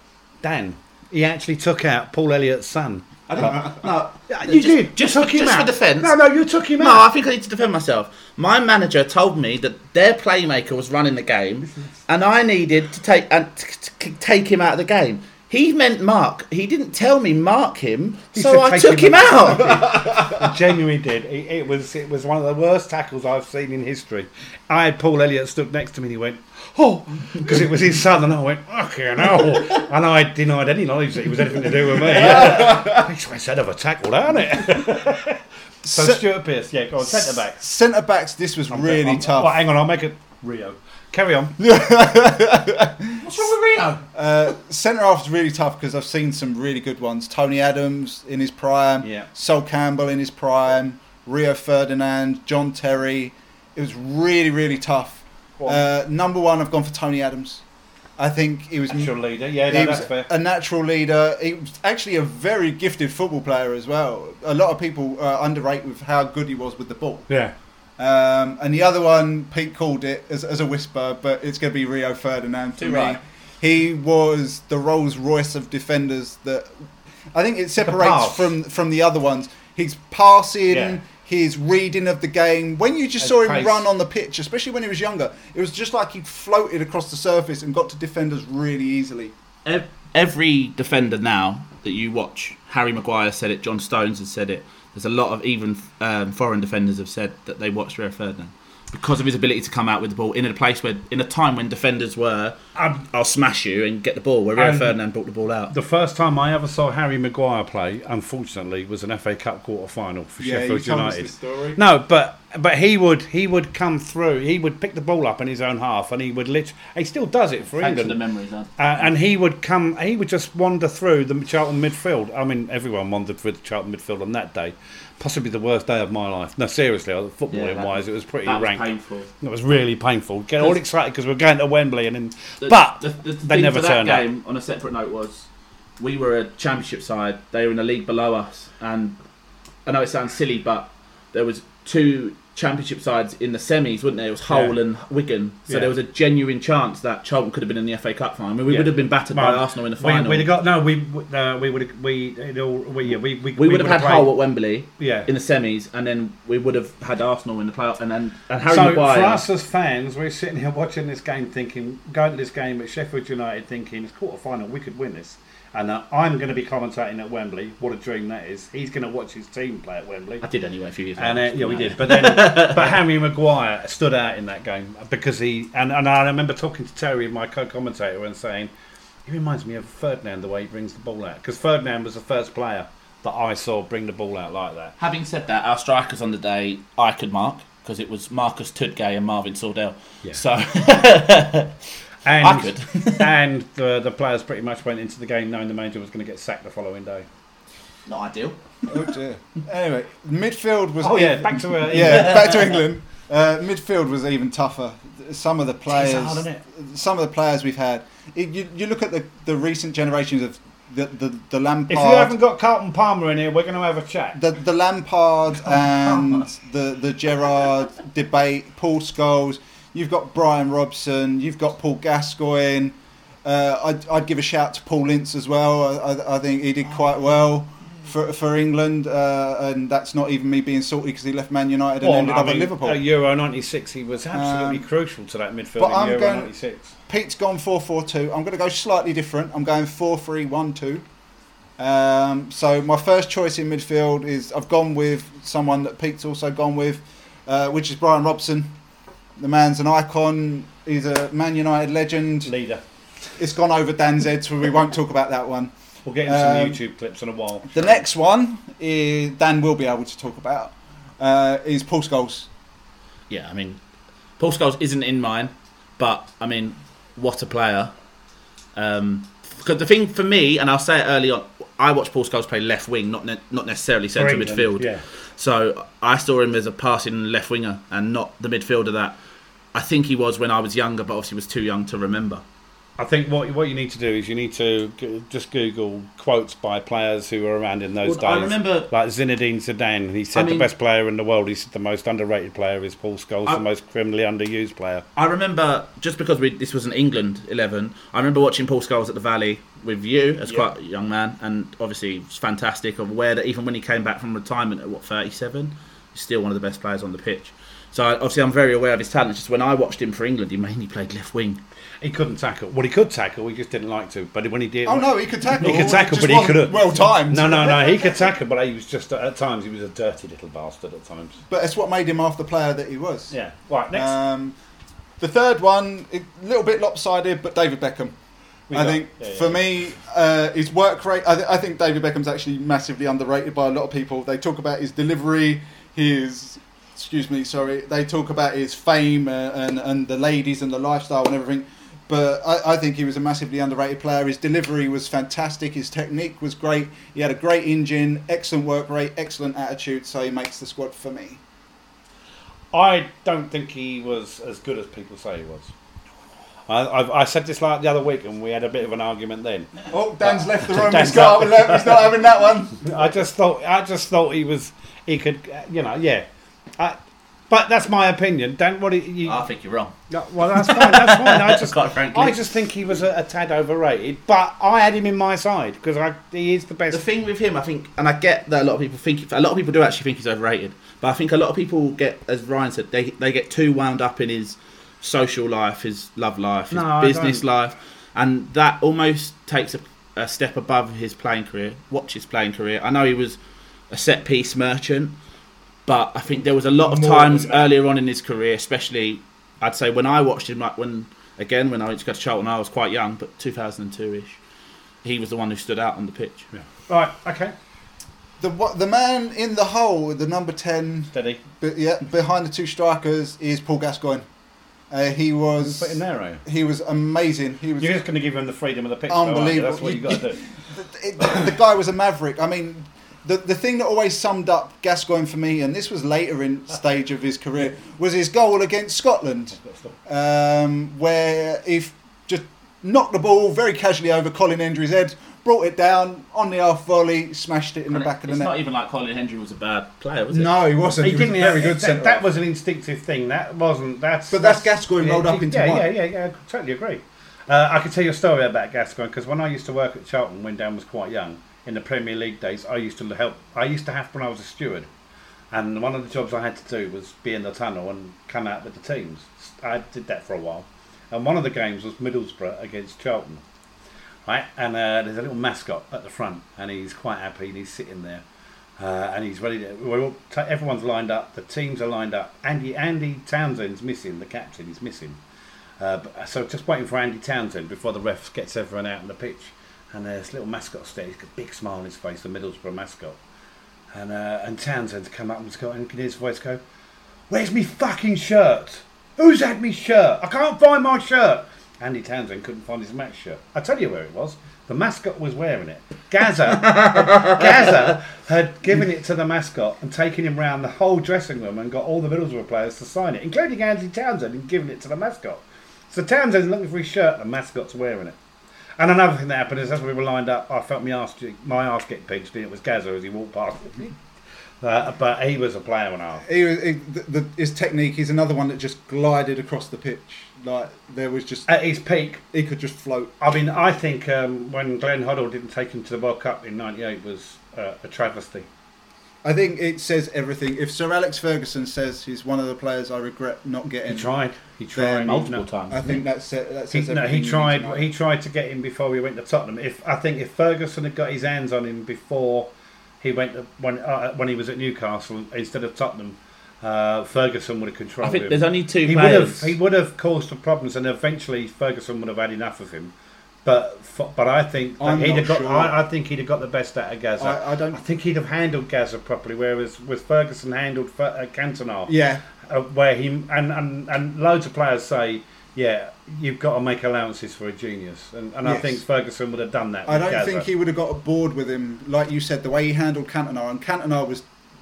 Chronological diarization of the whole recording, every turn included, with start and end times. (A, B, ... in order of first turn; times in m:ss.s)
0:00.4-0:07.0 A
0:03.3-0:06.2 B
0:06.8-0:20.0 B
0:18.4-0:37.6 A
0:32.0-0:33.1 C
0:35.8-0:36.3 C
0:37.0-0:39.6 C
0:38.7-0:41.6 A
0:41.6-0:43.3 C
0:43.2-0:44.0 B
0:44.2-0:57.6 C
0:49.0-0:49.3 A
0:58.2-1:07.3 C
0:58.9-1:00.3 A
1:07.3-1:07.5 A
1:08.0-1:29.3 C
1:12.8-1:13.2 B
1:17.8-1:18.5 A
1:20.7-1:21.0 A
1:23.2-1:23.9 A
1:29.6-1:45.7 B
1:42.8-1:43.0 A
1:44.6-1:45.0 A
1:45.7-1:58.2 A
1:50.4-1:51.8 C
1:57.8-1:59.0 B
1:58.8-2:08.9 A
2:07.5-2:09.3 B
2:09.4-2:14.3 A
2:12.6-2:15.5 B
2:16.0-2:19.2 B
2:19.8-2:30.5 B
2:24.5-2:24.8 A
2:25.7-2:25.9 A
2:28.7-2:34.3 A
2:33.6-2:39.4 B
2:35.0-2:35.3 A
2:38.7-2:50.5 A
2:50.4-2:53.0 B
2:51.2-2:58.7 A
2:59.3-3:05.0 A
3:05.0-3:11.8 B
3:12.2-3:17.3 A
3:12.4-3:13.3 B
3:18.1-3:19.1 B
3:18.9-3:32.3 C
3:21.0-3:22.5 A
3:22.0-3:22.6 B
3:25.9-3:26.6 B
3:31.9-3:34.4 A
3:34.4-3:53.0 C
3:52.0-3:56.9 A
3:54.3-3:54.8 C
3:55.8-3:56.5 C
3:57.1-4:01.0 C
4:01.8-4:08.7 C
4:09.4-4:12.5 C
4:12.5-4:12.8 A
4:13.4-4:15.7 C
4:16.1-4:18.0 A
4:16.2-4:16.8 C
4:17.7-4:22.5 C
4:23.3-4:23.8 B
4:24.4-4:27.9 B
4:28.7-4:39.2 B
4:34.2-4:35.0 A
4:39.7-4:42.4 B
4:43.0-4:55.0 A
4:48.0-4:48.9 B
4:50.4-4:50.7 B
4:55.2-5:11.6 B
5:12.0-5:21.4 A
5:14.8-5:18.3 C
5:21.5-5:23.4 C
5:23.3-5:24.2 A
5:23.9-5:24.6 C
5:25.2-5:28.2 C
5:28.7-5:29.6 A
5:28.7-5:51.4 C
5:52.7-5:55.7 A
5:56.7-5:59.7 A
5:59.9-6:02.8 C
6:00.6-6:02.1 A
6:02.8-6:06.2 A
6:07.5-6:09.4 A
6:09.2-6:10.0 B
6:10.1-6:17.0 A
6:10.6-6:12.4 B
6:16.9-6:33.4 B
6:26.7-6:27.4 A
6:33.9-6:35.2 B
6:35.8-6:44.4 B
6:36.8-6:37.7 C
6:45.0-6:46.5 B
6:46.5-6:47.5 A
6:48.4-6:54.3 C
6:51.1-6:51.4 A
6:54.9-6:57.9 C
6:55.6-6:56.4 A
6:57.8-7:00.5 A
6:59.1-7:18.6 C
7:17.9-7:20.6 B
7:20.3-7:22.3 C
7:21.0-7:34.9 A
7:24.3-7:25.9 C
7:35.5-7:43.4 A
7:44.3-7:48.2 A
7:48.8-7:55.2 A
7:55.8-8:03.2 A
8:03.9-8:06.6 A
8:07.3-8:28.2 A
8:16.6-8:17.5 B
8:28.8-8:33.9 A
8:34.6-8:36.2 A
8:36.3-8:41.5 C
8:41.5-8:42.2 A
8:42.3-8:43.2 C
8:43.2-8:48.5 A
8:49.2-8:54.1 C
8:53.9-8:55.5 A
8:54.8-8:57.8 C
8:55.1-8:56.0 B
8:56.7-9:12.9 A
9:08.0-9:09.6 B
9:13.4-9:30.5 A
9:14.8-9:15.8 C
9:17.2-9:17.8 C
9:21.9-9:22.2 C
9:28.4-9:28.8 C
9:29.9-9:34.3 C